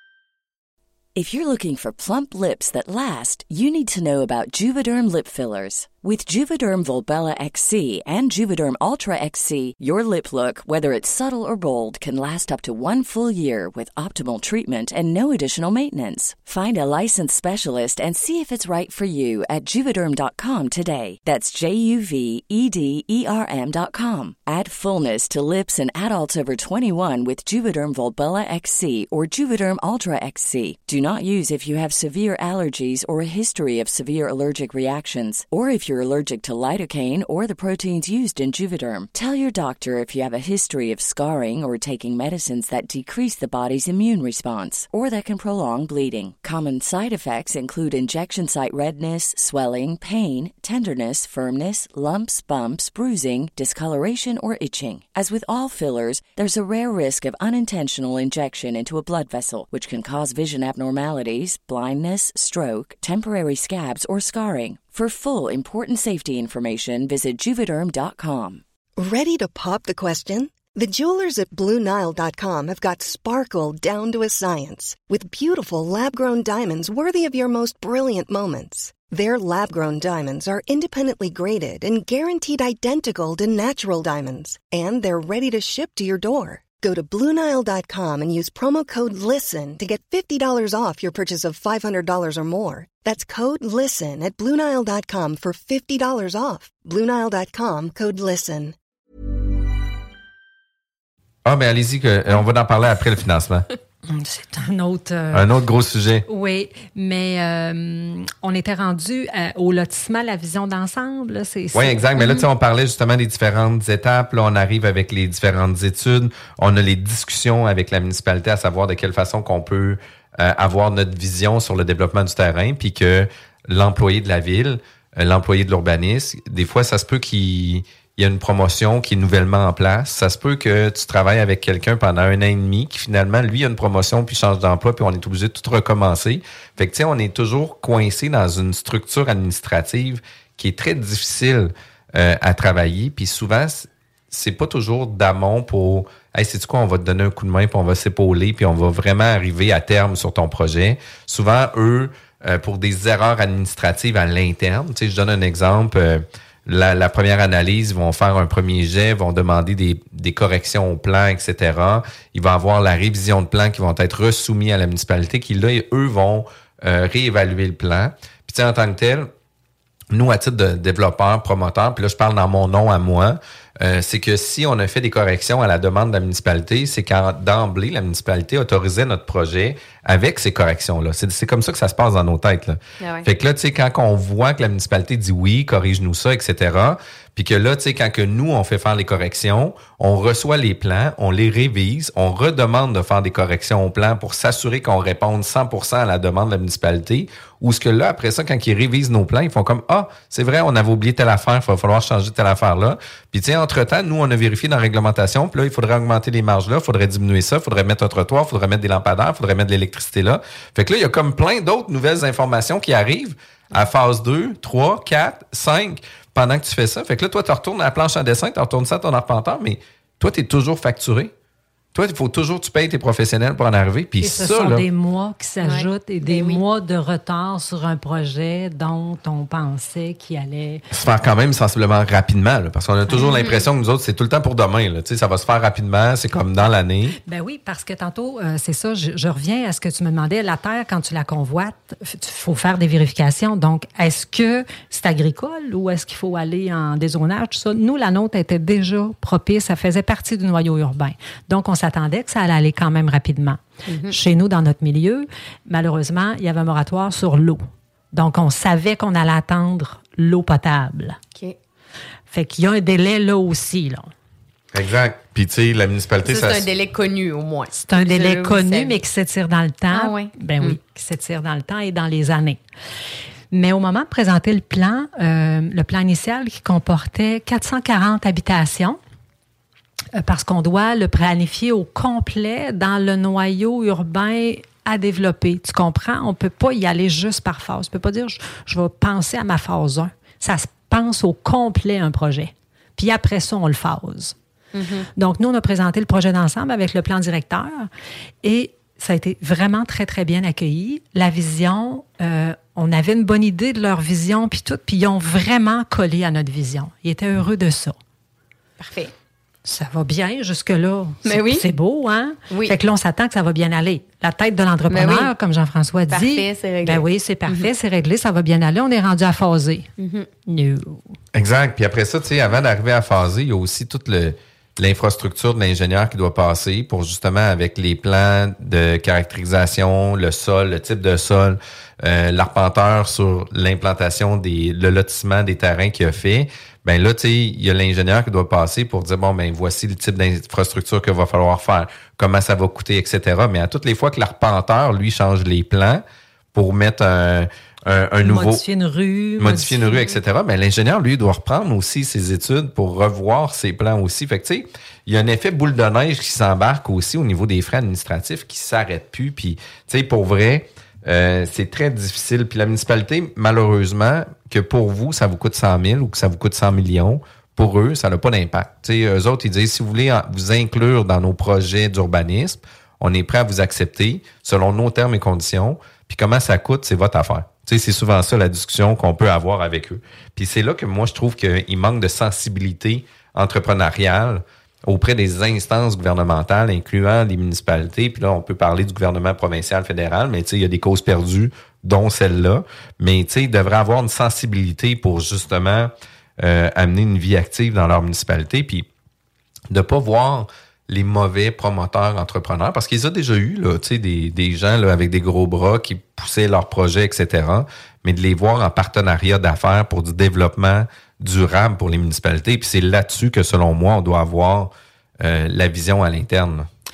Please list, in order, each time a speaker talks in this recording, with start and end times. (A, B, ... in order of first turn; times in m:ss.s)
0:01.1-1:08.6 A
1:09.0-1:38.7 B
1:41.4-1:43.7 C
1:44.1-1:45.4 D
1:45.3-1:46.2 C
1:46.3-1:52.0 D
1:51.7-2:49.3 C
1:52.2-1:52.4 E
2:50.1-3:41.3 C
3:03.0-3:03.3 E
3:41.9-3:44.9 C
3:44.2-3:50.8 D
3:45.6-3:46.6 E
3:50.9-3:57.2 C
3:53.1-3:53.4 D
3:53.2-3:53.6 E
3:57.2-4:17.6 D
4:13.8-4:14.2 E
4:18.1-4:21.2 D
4:22.3-4:24.1 D
4:24.7-4:26.7 C
4:26.2-4:29.0 E
4:27.7-4:32.6 D
4:29.9-4:30.8 E
4:33.5-4:39.0 D
4:40.1-4:54.4 D
4:54.7-4:55.1 E
4:55.2-4:57.9 D
4:58.4-5:08.0 D
5:08.8-5:09.1 E
5:09.6-5:19.9 D
5:11.2-5:11.6 E
5:12.5-5:12.7 E
5:14.9-5:15.3 E
5:16.1-5:17.7 E
5:20.0-5:20.3 E
5:20.4-5:21.0 D
5:21.3-5:46.0 C
5:46.5-5:48.6 C
5:48.2-5:50.0 D
5:49.4-6:38.9 C
6:39.7-6:56.7 C